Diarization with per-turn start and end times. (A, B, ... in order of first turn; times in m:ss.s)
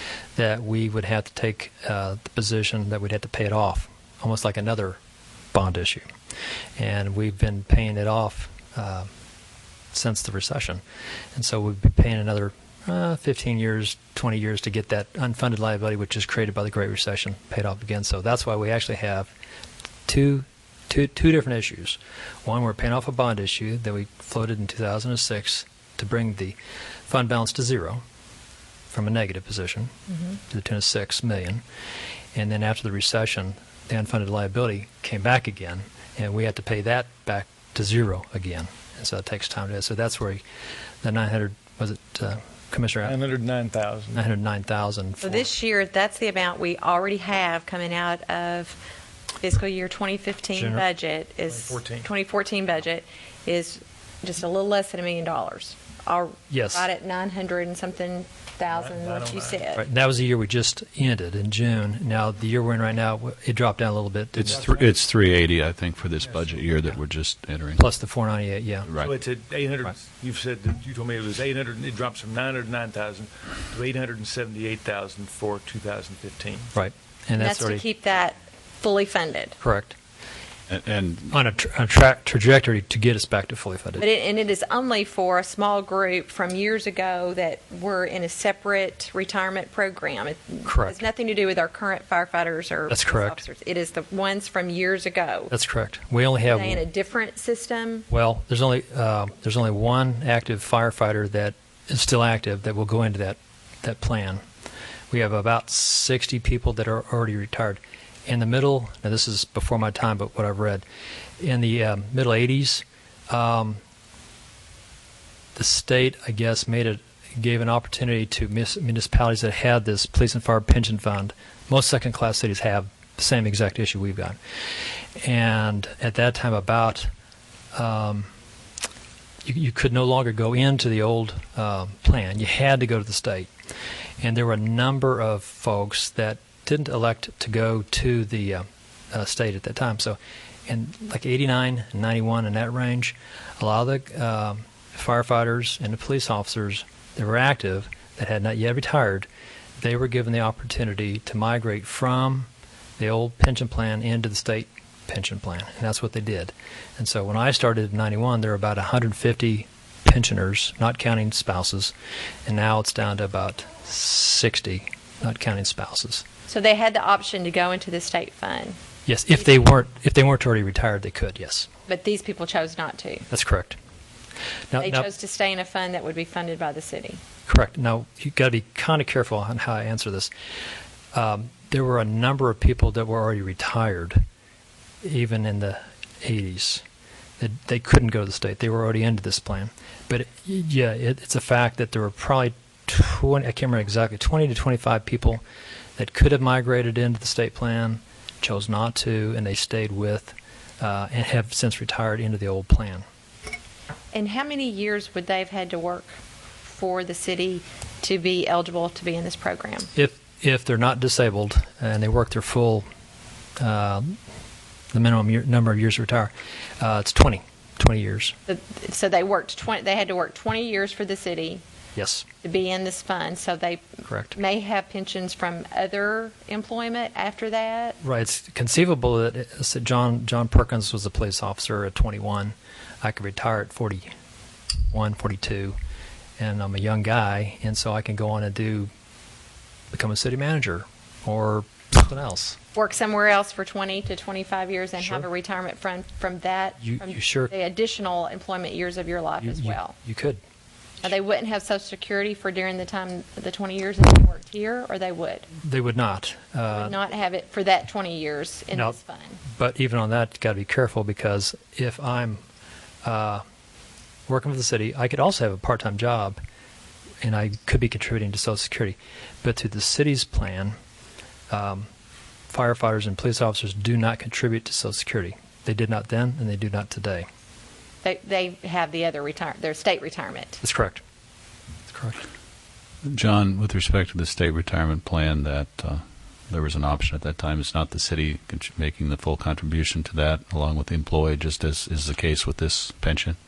0:00.4-0:05.0 A
0:05.5-0:06.1 A
0:06.8-0:09.1 A
0:09.9-0:10.8 A
0:11.4-0:19.3 A
0:20.1-0:26.6 A
0:27.1-0:28.0 A
0:28.9-0:31.6 A
0:32.4-0:40.4 A
0:41.0-0:43.2 A
0:43.0-0:44.2 B
0:44.1-0:45.5 A
0:45.2-0:48.8 C
0:49.4-0:59.8 C
0:50.6-0:50.8 A
0:51.5-0:52.1 B
0:56.5-0:56.9 A
0:58.7-0:59.6 B
0:59.8-1:04.8 A
1:04.4-1:07.8 D
1:04.5-1:04.8 B
1:07.8-1:08.9 A
1:08.9-1:09.1 D
1:09.0-1:16.7 B
1:16.8-1:17.8 A
1:17.4-1:19.6 C
1:19.6-1:20.0 A
1:20.7-1:21.3 D
1:21.3-1:24.0 A
1:24.0-1:35.5 C
1:30.6-1:31.0 A
1:32.9-1:33.4 A
1:35.5-1:36.8 A
1:36.5-1:38.1 C
1:38.1-1:44.4 A
1:45.1-1:50.8 A
1:51.4-1:53.8 A
1:55.6-2:04.4 A
2:05.2-2:07.1 A
2:07.7-2:08.3 A
2:09.4-2:13.5 A
2:14.2-2:29.3 A
2:29.8-2:41.9 A
2:42.5-2:46.2 A
2:46.5-2:48.8 C
2:49.1-2:51.7 A
2:51.9-2:53.3 C
2:53.3-2:53.8 A
2:54.7-2:55.1 A
2:54.8-2:57.2 C
2:57.5-3:00.3 A
3:01.1-3:04.2 A
3:05.0-3:06.8 A
3:07.4-3:15.4 A
3:16.0-3:23.0 A
3:24.1-3:26.1 C
3:26.6-3:29.9 C
3:30.0-3:32.9 A
3:33.6-3:34.2 A
3:34.9-3:38.4 A
3:38.5-3:41.6 C
3:42.0-3:42.3 A
3:42.4-3:48.0 C
3:44.1-3:44.4 A
3:48.0-3:54.1 A
3:54.9-3:55.8 A
3:56.4-3:58.9 A
3:59.9-4:02.6 A
4:02.8-4:10.0 C
4:05.0-4:05.2 A
4:06.8-4:07.5 A
4:09.4-4:10.4 A
4:11.0-4:15.5 C
4:15.6-4:17.0 A
4:16.7-4:19.4 C
4:19.5-4:22.4 A
4:23.0-4:23.4 A
4:24.3-4:26.4 A
4:27.2-4:30.8 A
4:31.5-4:31.9 A
4:32.5-4:37.3 A
4:38.0-4:40.6 C
4:40.6-4:41.0 A
4:41.9-4:42.2 A
4:43.0-4:53.4 D